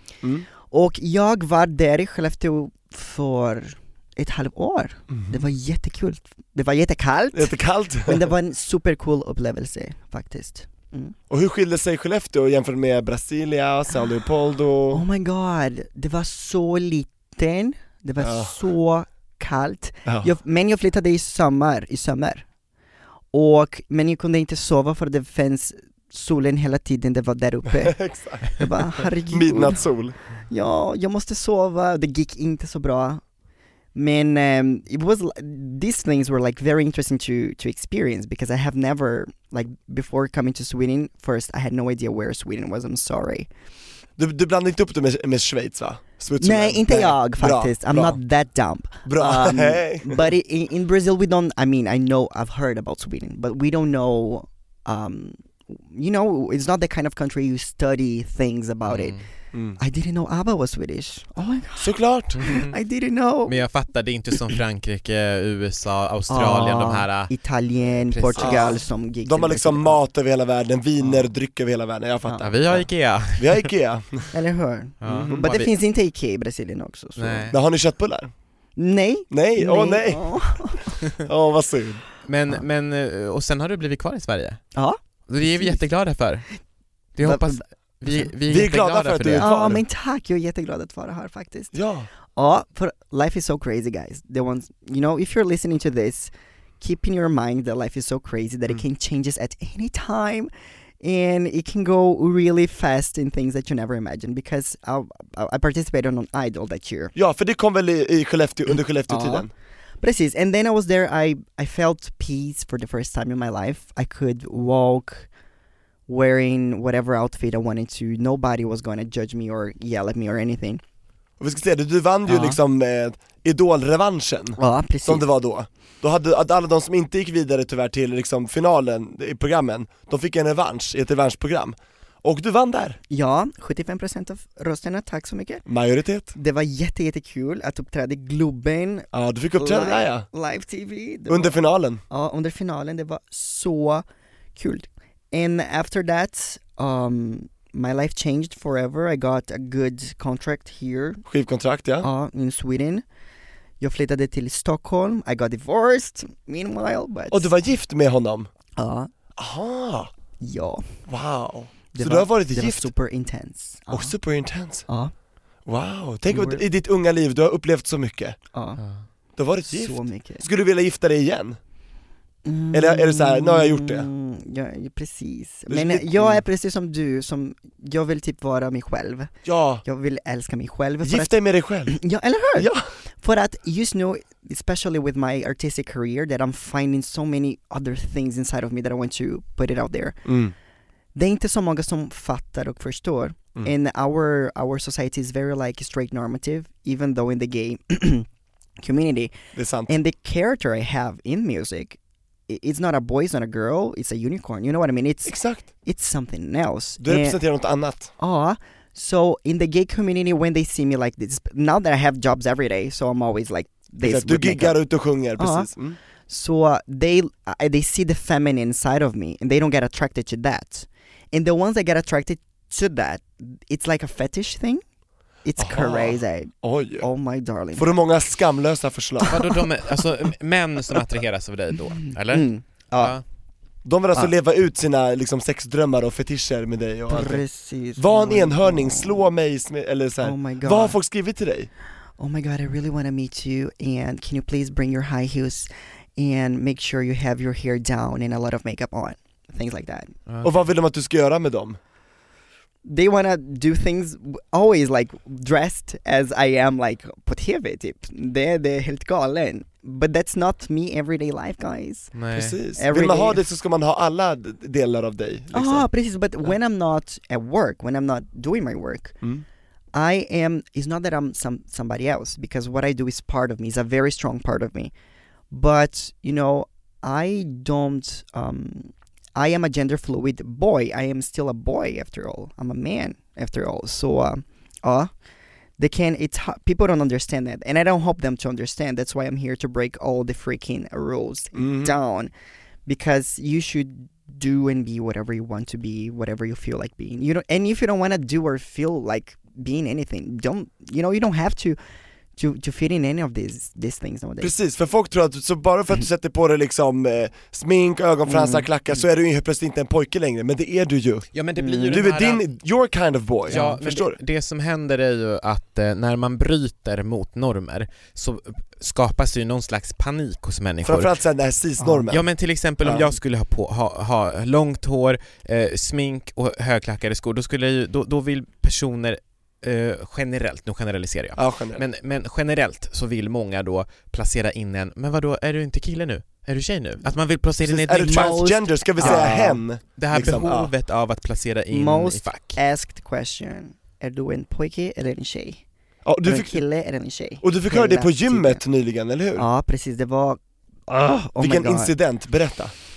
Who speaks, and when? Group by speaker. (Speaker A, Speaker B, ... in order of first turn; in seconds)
Speaker A: 0.6-11.2, 14.9-22.4, 23.3-29.9, 30.5-33.2, 34.0-43.5, 46.4-59.2, 59.8-63.5, 66.3-70.0, 72.3-72.5, 74.3-77.5, 78.8-81.0, 84.8-85.8, 87.2-87.6, 89.4-91.7, 92.3-100.5, 101.0-107.1, 109.1-109.5, 110.0-115.3, 116.1-120.8, 122.3-122.6, 124.6-125.2, 133.1-135.7, 136.3-144.0, 144.6-151.2, 152.0-153.0, 153.8-157.5, 158.8-159.1, 160.4-161.0, 161.9-164.2, 164.9-165.1, 166.3-166.6, 168.5-168.8, 169.7-170.4, 172.4-179.3, 179.8-181.4, 181.9-190.2, 191.2-198.3, 198.8-199.3, 199.9-207.4, 208.2-214.8, 215.4-215.7, 216.3-224.8, 225.4-227.9, 232.0-233.2, 237.1-239.3, 240.2-241.0, 242.2-250.1, 252.8-262.1, 262.8-263.4, 265.5-269.2, 269.9-274.9, 275.5-285.1, 285.8-292.3, 292.9-301.8, 302.4-304.5, 308.3-309.0, 311.6-312.0, 313.5-313.8, 321.8-322.1, 337.9-339.6, 341.7-345.6, 346.2-348.6, 349.4-351.9
Speaker B: 5.1-5.4, 7.3-8.3, 11.3-15.0, 18.2-18.6, 20.1-20.3, 27.8-28.6, 29.3-30.2, 44.2-48.2, 49.1-50.3, 59.5-59.8, 61.8-62.5, 68.4-72.8, 73.4-74.3, 75.0-75.5, 77.5-78.3, 79.3-82.0, 88.5-89.8, 91.7-92.1, 107.2-109.5, 121.4-133.0, 135.7-136.3, 139.1-140.3, 141.3-142.0, 151.3-152.1, 157.3-158.5, 159.4-160.1, 161.1-162.9, 163.9-164.9, 165.7-168.4, 169.4-171.6, 172.7-174.1, 175.7-176.4, 179.4-179.8, 181.0-182.0, 182.6-182.9, 190.2-190.5, 199.5-199.9, 205.3-205.7, 207.0-208.1, 214.0-216.0, 225.6-227.1, 227.8-229.5, 233.8-237.4, 238.0-241.7, 250.4-251.8, 262.3-265.9, 291.6-291.9, 304.4-311.3, 311.9-314.2, 320.8-322.2, 322.8-323.1, 331.4-331.8, 337.6-340.7, 346.1-346.6, 347.4-349.5, 351.4-352.7
Speaker C: 58.9-59.2, 62.4-62.7, 63.5-67.3, 67.9-68.8, 72.4-73.7, 75.0-75.7, 77.2-77.6, 82.3-84.6, 85.3-86.5, 87.2-89.5, 229.3-233.2, 250.3-250.6, 262.1-262.6, 311.3-312.5, 313.5-321.1, 322.1-338.4, 339.0-339.4, 340.0-342.6